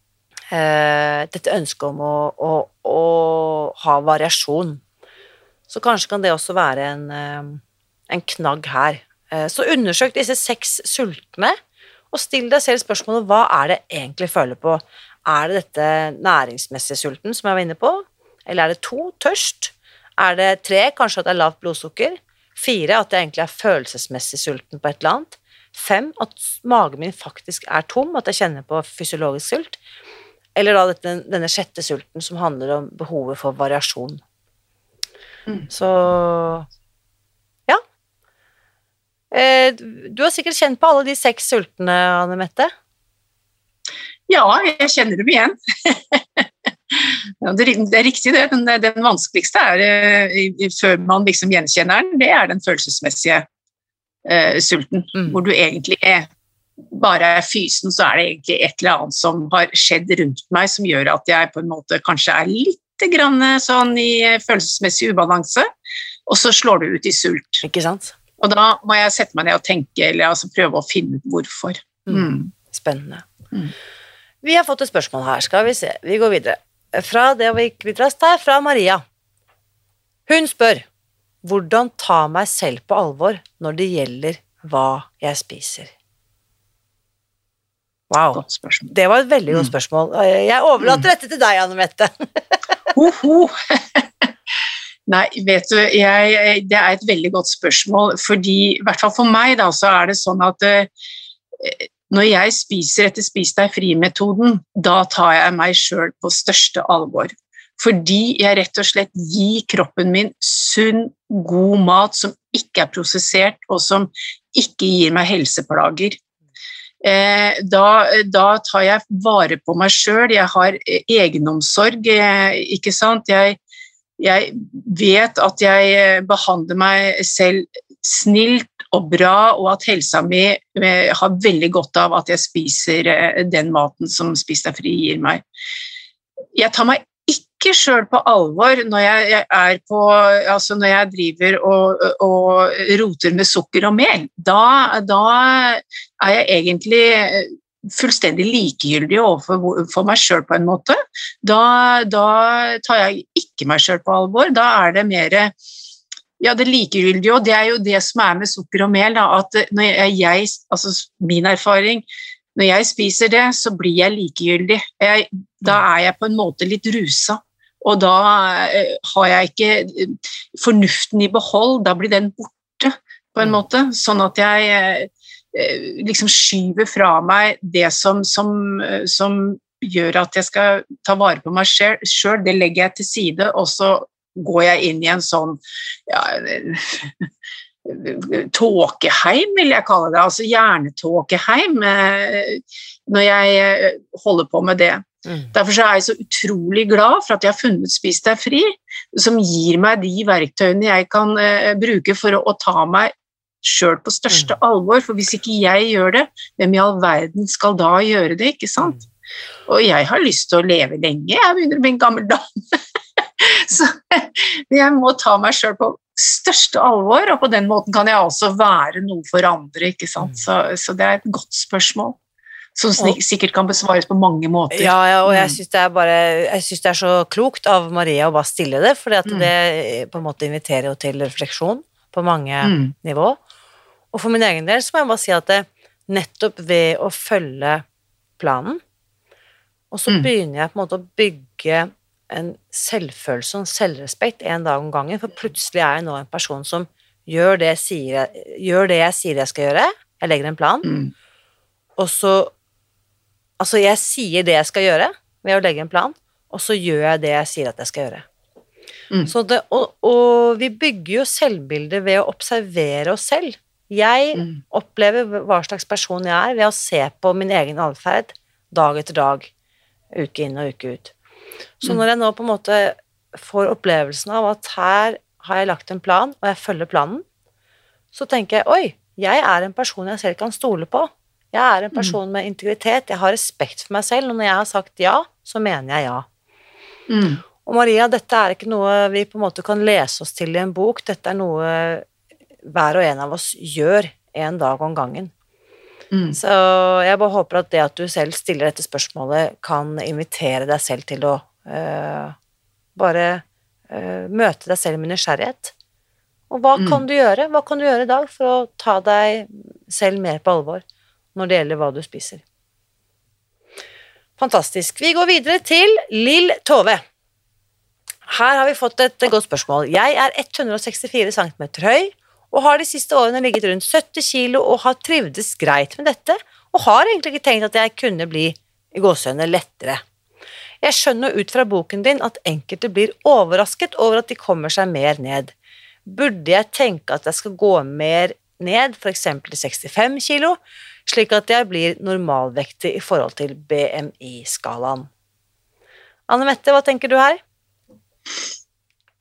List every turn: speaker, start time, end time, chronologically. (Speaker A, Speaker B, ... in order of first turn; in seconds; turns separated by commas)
Speaker A: 0.5-4.8, Speaker A: 5.7-11.6, Speaker A: 12.1-29.8, Speaker A: 30.6-34.2, Speaker A: 35.7-36.7, Speaker A: 39.3-42.7, Speaker B: 44.3-53.4, Speaker B: 54.2-56.3, Speaker B: 56.9-65.7, Speaker B: 66.3-67.6, Speaker A: 67.6-68.1, Speaker B: 68.4-72.5, Speaker A: 72.1-73.2, Speaker A: 74.4-79.0, Speaker A: 80.3-80.8, Speaker A: 81.4-85.9, Speaker A: 88.1-92.5, Speaker B: 88.3-88.9, Speaker B: 92.9-94.3, Speaker B: 95.1-100.9, Speaker B: 101.6-116.2, Speaker B: 117.0-123.6, Speaker B: 124.2-135.4, Speaker B: 136.5-155.5, Speaker B: 156.4-187.3, Speaker B: 187.8-203.1, Speaker A: 195.2-195.5, Speaker B: 203.6-209.0, Speaker B: 209.7-222.2, Speaker B: 222.7-225.6, Speaker A: 224.7-233.4, Speaker B: 232.6-232.9, Speaker A: 234.1-237.8, Speaker A: 238.4-238.8, Speaker A: 239.9-250.9, Speaker B: 250.8-251.1, Speaker A: 252.0-252.5, Speaker A: 253.6-258.2, Speaker A: 259.2-269.5, Speaker A: 270.1-271.1, Speaker A: 271.8-277.2, Speaker A: 278.1-286.2, Speaker B: 287.1-287.4, Speaker A: 287.6-292.1, Speaker A: 292.6-295.3, Speaker B: 296.1-296.4, Speaker A: 296.3-302.4, Speaker A: 302.9-305.7, Speaker A: 306.5-310.8, Speaker A: 311.3-312.4, Speaker A: 314.4-317.0, Speaker A: 318.3-330.0, Speaker A: 330.8-335.5, Speaker A: 336.0-345.1, Speaker A: 346.3-347.4